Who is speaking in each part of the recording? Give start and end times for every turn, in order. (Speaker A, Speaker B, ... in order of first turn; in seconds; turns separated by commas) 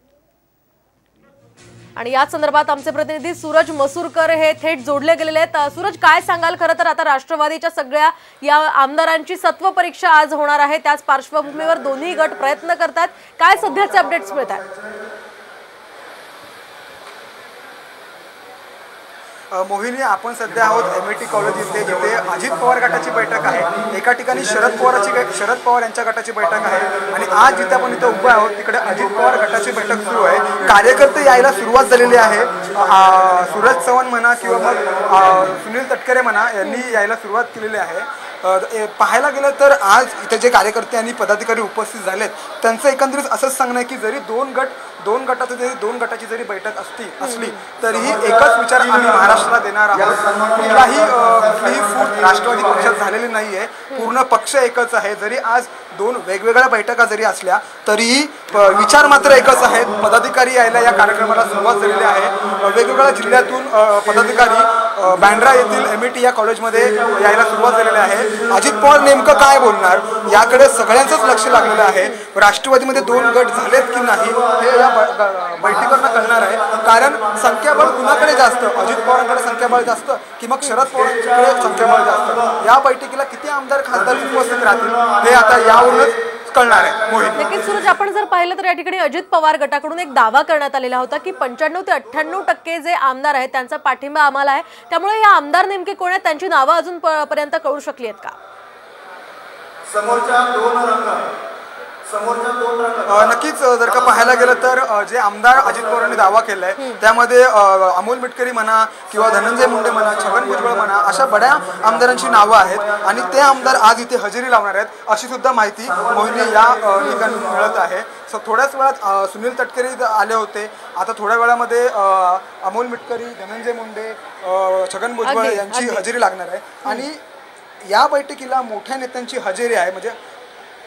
Speaker A: 2.0-14.7, Speaker B: 19.5-87.5, Speaker A: 36.6-36.9, Speaker A: 47.2-47.6, Speaker A: 87.4-98.3, Speaker C: 99.9-101.3, Speaker C: 102.1-103.0, Speaker B: 103.0-127.2, Speaker A: 125.2-126.0, Speaker B: 127.9-130.2